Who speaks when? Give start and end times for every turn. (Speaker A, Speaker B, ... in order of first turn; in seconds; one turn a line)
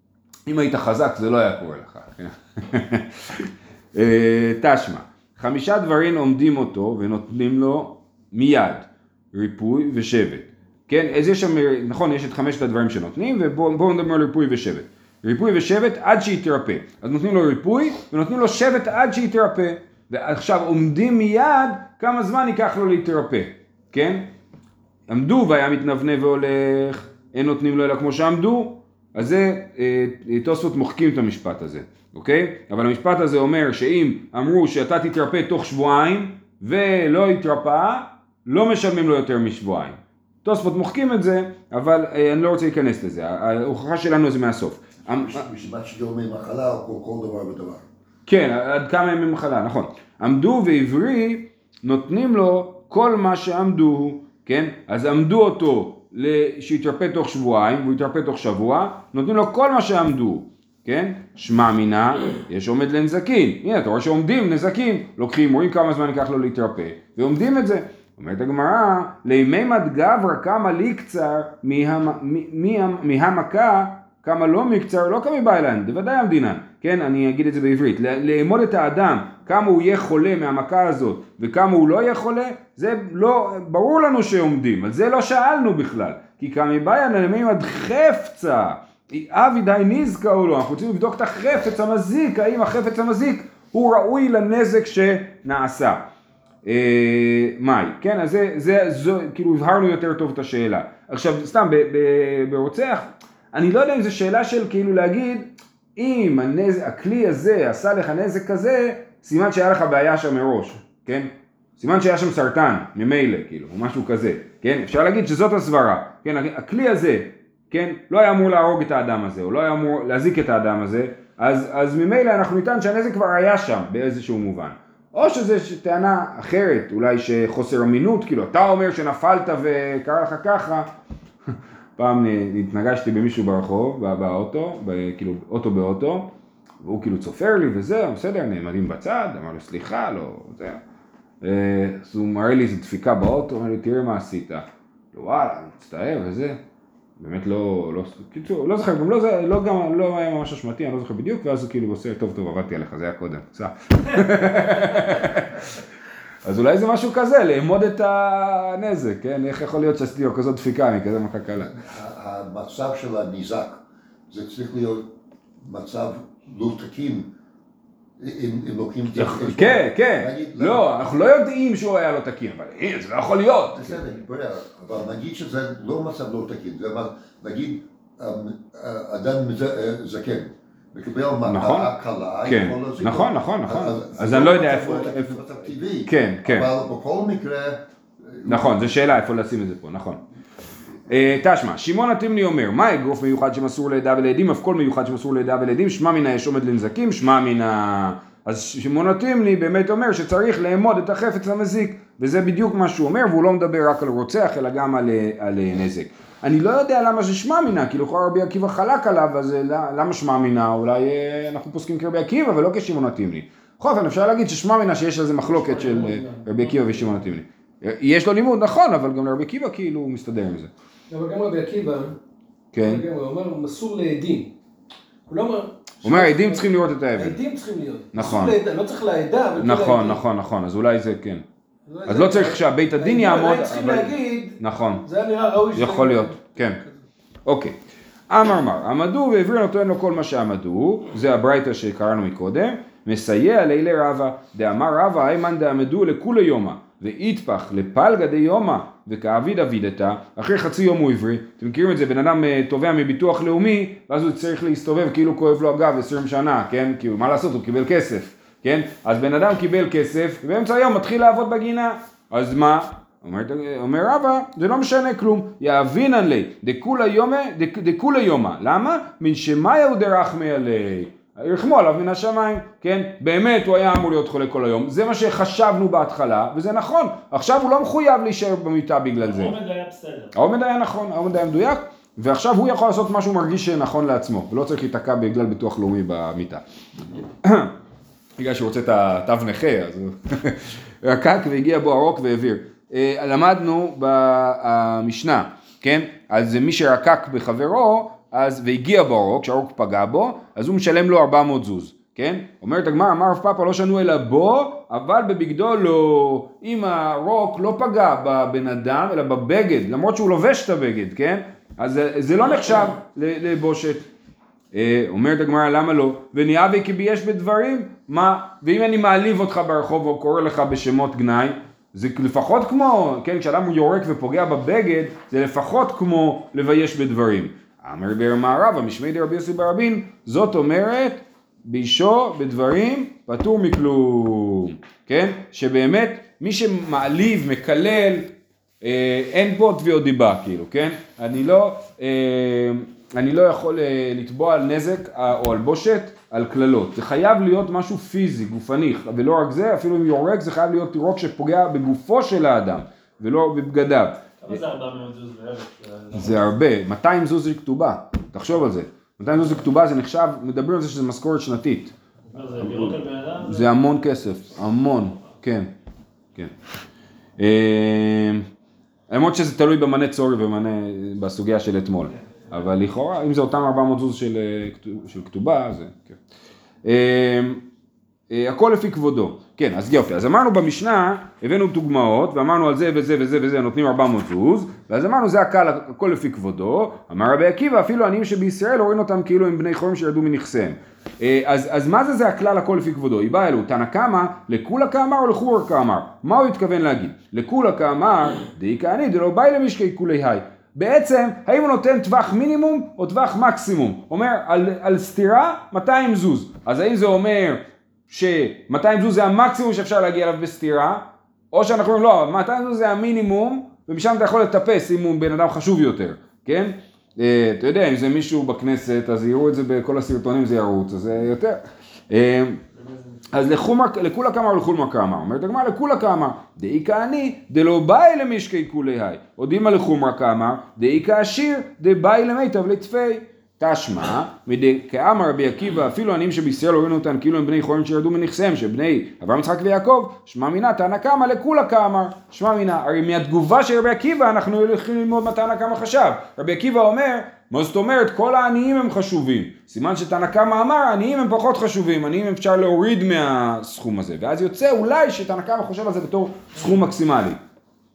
Speaker A: 0.5-24.3
Speaker A: 25.1-45.4
Speaker B: 45.1-47.9
Speaker A: 48.3-96.0
Speaker A: 96.7-130.9
Speaker A: 132.0-140.8
Speaker A: 141.4-146.6
Speaker A: 147.2-155.8
Speaker A: 156.4-161.7
Speaker B: 161.6-167.3
Speaker B: 168.2-170.8
Speaker A: 169.1-174.0
Speaker B: 173.7-188.9
Speaker A: 181.4-181.9
Speaker A: 182.4-186.7
Speaker A: 188.5-190.2
Speaker A: 191.1-220.7
Speaker C: 215.5-217.2
Speaker D: 221.1-222.2
Speaker A: 222.7-223.0
Speaker D: 222.8-224.5
Speaker D: 225.3-230.2
Speaker A: 226.0-227.4
Speaker A: 228.1-228.6
Speaker A: 229.6-231.4
Speaker D: 231.9-236.9
Speaker A: 232.1-235.1
Speaker A: 235.7-236.8
Speaker A: 237.5-237.8
Speaker A: 238.3-279.6
Speaker C: 279.2-280.3
Speaker A: 280.4-286.6
Speaker A: 287.4-287.7
Speaker A: 288.4-314.1
Speaker A: 314.7-354.6
Speaker C: 354.4-356.5
Speaker A: 356.1-361.9
Speaker C: 362.3-363.7
Speaker A: 362.6-365.7
Speaker A: 367.4-368.5
Speaker A: 369.1-376.2
Speaker A: 376.9-377.6
Speaker A: 378.3-422.6
Speaker A: 423.3-457.4